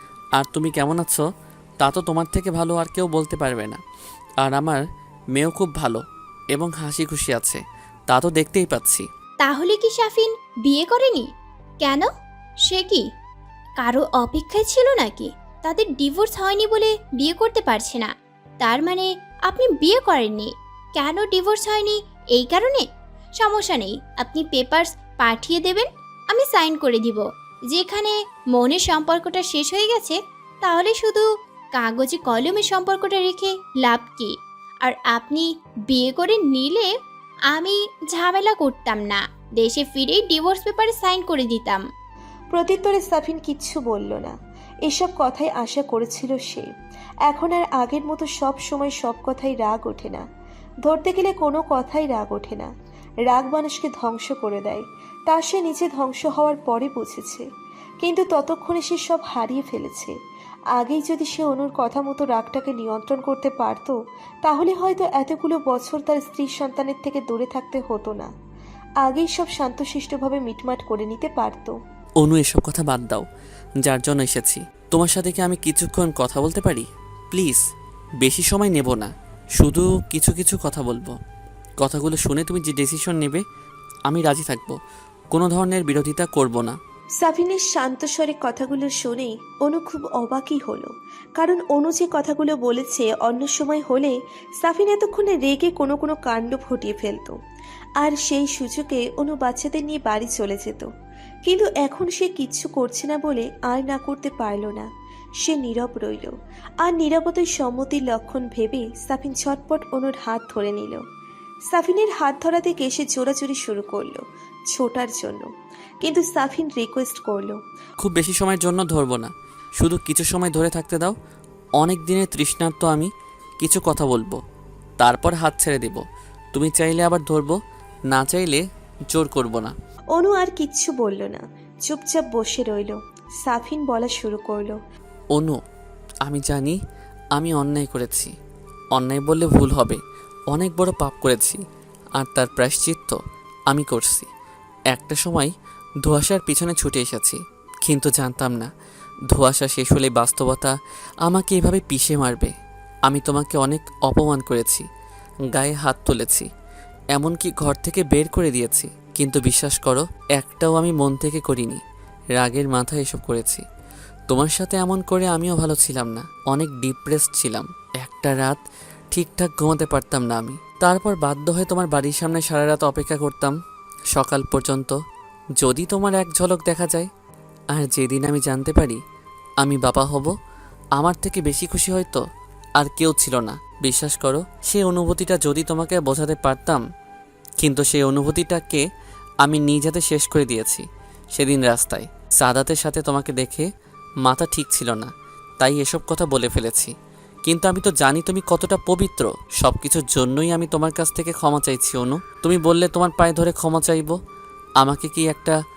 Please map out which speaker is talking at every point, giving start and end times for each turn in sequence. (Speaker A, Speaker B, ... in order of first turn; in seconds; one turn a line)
Speaker A: 0.3-1.2
Speaker A: 1.8-3.8
Speaker A: 4.4-4.8
Speaker A: 5.3-6.0
Speaker A: 6.5-9.1
Speaker B: 9.4-11.3
Speaker B: 11.8-12.1
Speaker B: 12.7-13.1
Speaker B: 13.8-18.1
Speaker B: 18.6-22.9
Speaker B: 23.4-36.9
Speaker B: 37.5-41.8
Speaker C: 42.5-44.3
Speaker C: 44.9-46.7
Speaker C: 47.3-50.2
Speaker C: 50.8-52.7
Speaker C: 53.2-57.5
Speaker C: 58.0-60.1
Speaker C: 60.8-68.3
Speaker C: 69.0-71.8
Speaker A: 72.2-73.2
Speaker A: 73.8-77.6
Speaker A: 78.2-81.2
Speaker A: 81.8-83.4
Speaker A: 84.1-84.8
Speaker A: 85.3-86.8
Speaker C: 87.2-97.3
Speaker C: 98.0-100.9
Speaker C: 101.5-104.9
Speaker C: 105.4-111.0
Speaker C: 111.7-115.5
Speaker C: 116.0-117.6
Speaker A: 118.0-121.1
Speaker A: 121.8-123.1
Speaker A: 123.6-124.4
Speaker A: 125.0-126.0
Speaker A: 126.5-127.6
Speaker A: 128.1-129.7
Speaker C: 130.2-134.8
Speaker A: 136.2-136.8
Speaker A: 137.3-138.3
Speaker A: 138.9-140.0
Speaker A: 140.5-141.6
Speaker A: 142.2-143.2
Speaker A: 143.7-144.3
Speaker A: 144.9-145.5
Speaker A: 146.0-148.7
Speaker A: 149.3-150.7
Speaker A: 151.2-152.5
Speaker A: 153.1-154.8
Speaker A: 155.5-156.5
Speaker A: 157.1-161.8
Speaker A: 162.3-163.6
Speaker A: 164.3-168.6
Speaker A: 169.1-173.5
Speaker A: 174.1-175.0
Speaker A: 175.6-177.1
Speaker A: 177.7-179.0
Speaker A: 179.6-180.3
Speaker A: 181.0-182.2
Speaker A: 182.8-186.8
Speaker A: 187.6-188.8
Speaker A: 189.4-190.8
Speaker A: 191.3-193.7
Speaker A: 194.2-196.9
Speaker A: 197.4-204.2
Speaker A: 204.8-205.6